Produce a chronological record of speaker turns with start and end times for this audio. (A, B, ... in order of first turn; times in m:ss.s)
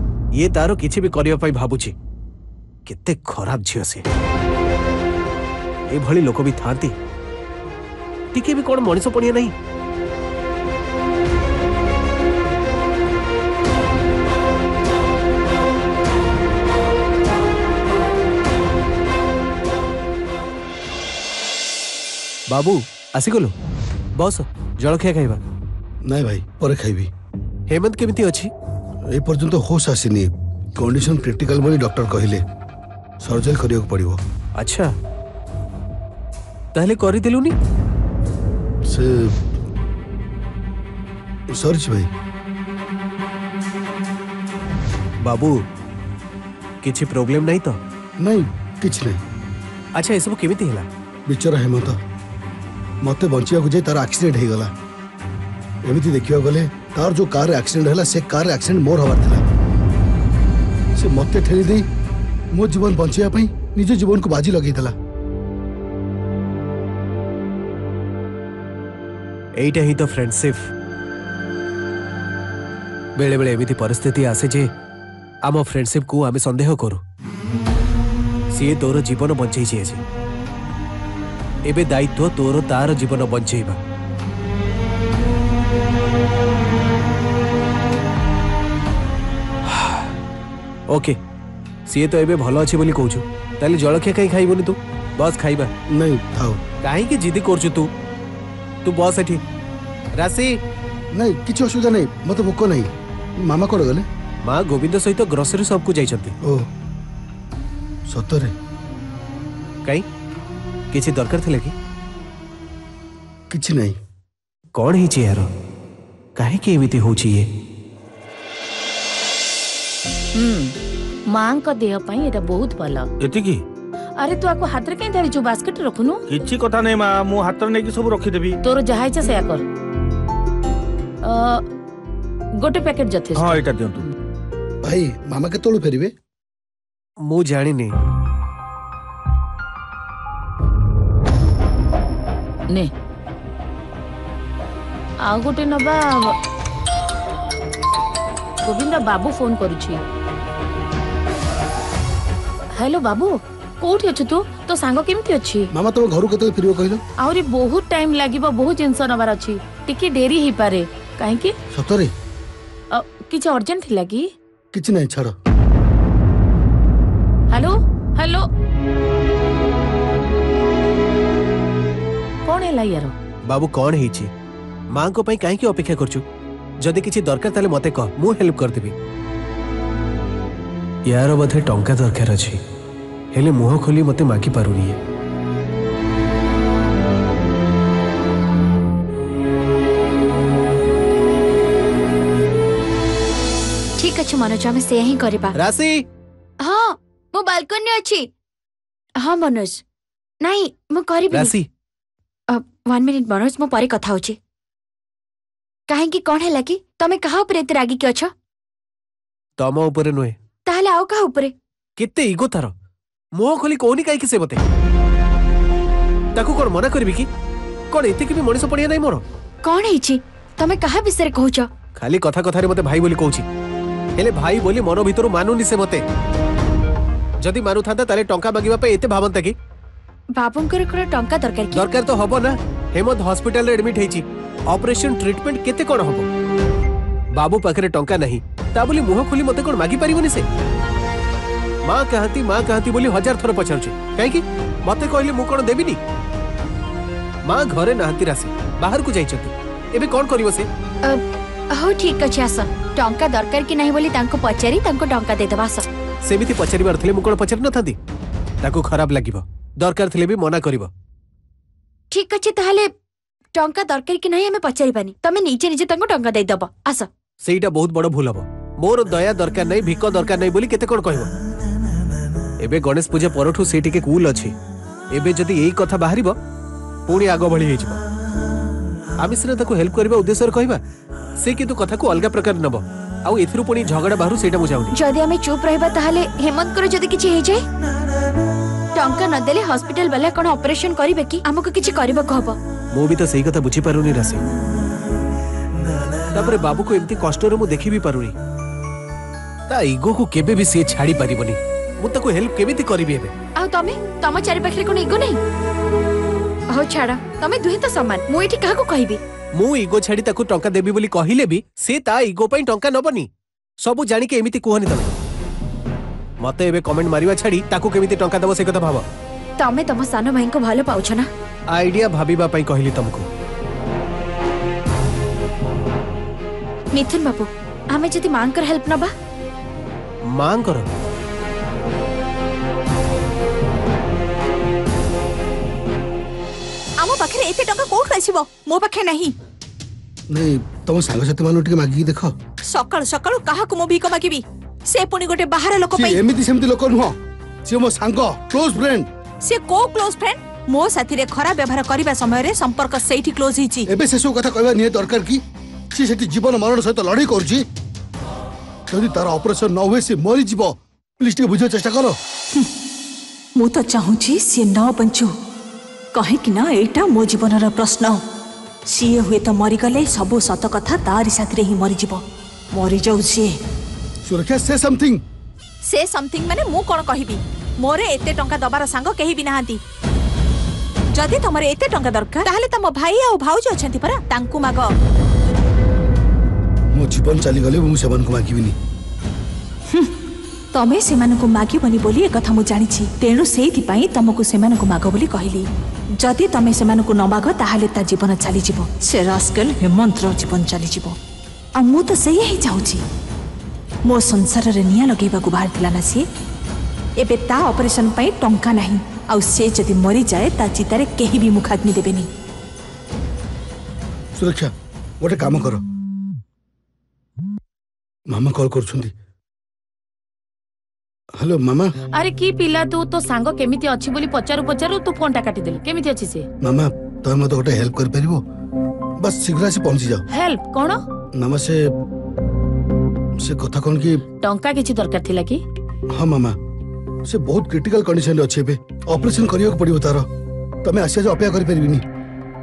0:00.4-0:01.9 A
0:02.9-0:04.0 A
0:05.9-0:06.9 A
0:08.3-0:09.5 A
0:22.5-0:23.5 A
0:24.2-0:25.4 A
0:26.0-0:27.1 B
0:27.7-0:28.5 A
0:29.1-0:32.4 B
0:33.2-0:34.2 B
0:34.6-0:34.9 A
0:36.7-0:37.6 A
0:38.9-0:39.4 B
0:41.5-0:42.1 B
0:45.2-0:45.6 A
0:46.8-0:47.8 A
0:48.2-0:49.2 B
0:50.0-0:50.9 A
0:51.3-0:52.0 B
0:53.0-0:54.7 B
0:55.8-0:59.4 B
1:01.0-1:01.9 B
1:02.5-1:05.0 B
1:09.6-1:10.7 A
1:13.2-1:14.7 A
1:15.5-1:17.0 A
1:18.5-1:20.0 A
1:21.7-1:23.8 A
1:29.7-1:30.1 A
1:30.9-1:31.2 A
1:31.9-1:35.7 A
1:35.9-1:36.6 B
1:36.8-1:37.9 A
1:38.8-1:39.4 A
1:40.2-1:40.6 A
1:41.1-1:42.9 B
1:43.4-1:44.1 B
1:44.4-1:46.4 A
1:46.4-1:46.7 B
1:48.1-1:48.5 B
1:50.9-1:51.8 A
1:53.5-1:54.0 B
1:54.8-1:55.5 A
1:56.4-1:57.5 A
2:00.3-2:00.8 C
2:01.3-2:03.1 C
2:03.2-2:03.6 D
2:04.2-2:06.2 C
2:06.3-2:08.6 D
2:08.6-2:09.6 C
2:11.2-2:11.6 C
2:12.6-2:13.6 C
2:13.4-2:14.0 D
2:14.8-2:16.1 B
2:17.2-2:18.0 A
2:25.2-2:26.4 C
2:28.6-2:30.0 C
2:32.8-2:35.7 C
2:35.7-2:37.0 B
2:37.2-2:41.6 C
2:41.7-2:42.1 B
2:42.9-2:44.3 C
2:44.7-2:45.4 B
2:47.5-2:48.5 C
2:52.5-2:53.1 C
2:53.5-2:54.3 A
2:54.9-2:56.2 A
2:56.8-2:59.0 A
3:01.1-3:02.6 A
3:03.3-3:05.0 A
3:14.0-3:15.6 E
3:15.6-3:16.0 A
3:16.6-3:18.3 E
3:19.2-3:19.8 E
3:20.4-3:21.6 E
3:21.3-3:21.7 A
3:22.5-3:24.4 E
3:25.9-3:28.3 E
3:29.6-3:30.4 A
3:30.7-3:31.5 E
3:32.0-3:32.7 A
3:33.4-3:34.6 A
3:36.4-3:37.3 A
3:37.9-3:39.2 A
3:39.6-3:41.7 E
3:42.0-3:43.5 A
3:44.2-3:46.0 A
3:47.4-3:49.6 A
3:50.4-3:51.9 E
3:51.7-3:56.3 A
3:57.4-4:00.5 A
4:01.9-4:06.0 A
4:07.5-4:10.7 A
4:11.7-4:15.9 E
4:16.2-4:18.0 A
4:18.6-4:20.9 A
4:22.1-4:22.9 E
4:23.6-4:27.1 E
4:27.4-4:31.3 A
4:32.6-4:34.6 A
4:35.1-4:36.4 A
4:37.1-4:38.0 A
4:39.2-4:40.8 A
4:41.4-4:45.0 A
4:44.9-4:47.6 E
4:49.0-4:52.6 E
4:52.9-4:54.4 A
4:56.3-4:58.4 A
4:59.7-5:03.3 A
5:03.6-5:05.4 E
5:06.7-5:09.2 E
5:09.6-5:13.3 A
5:13.8-5:15.2 A
5:16.4-5:19.0 A
5:19.6-5:21.3 E
5:21.8-5:23.3 A
5:26.9-5:29.1 E
5:30.3-5:30.9 A
5:37.0-5:39.4 F
5:40.3-5:42.3 B
5:42.6-5:46.2 F
5:45.9-5:49.1 B
5:49.4-5:53.9 F
5:53.9-5:55.4 B
5:55.9-5:57.7 B
5:58.9-6:02.2 B
6:03.6-6:05.4 F
6:06.1-6:08.2 F
6:08.9-6:13.6 F
6:14.2-6:15.2 B
6:15.8-6:19.8 F
6:21.1-6:24.9 F
6:26.9-6:28.8 B
6:30.7-6:41.2 F
6:41.8-6:43.0 F
6:44.0-6:46.3 F
6:47.2-6:52.3 F
6:54.4-6:55.8 B
6:58.3-6:59.1 B
7:01.4-7:01.9 B
7:02.2-7:06.5 C
7:06.6-7:08.4 B
7:09.2-7:10.2 B
7:10.3-7:11.0 C
7:11.4-7:11.8 B
7:13.4-7:14.2 B
7:14.4-7:15.6 C
7:16.1-7:16.6 B
7:17.3-7:20.3 B
7:20.8-7:22.0 B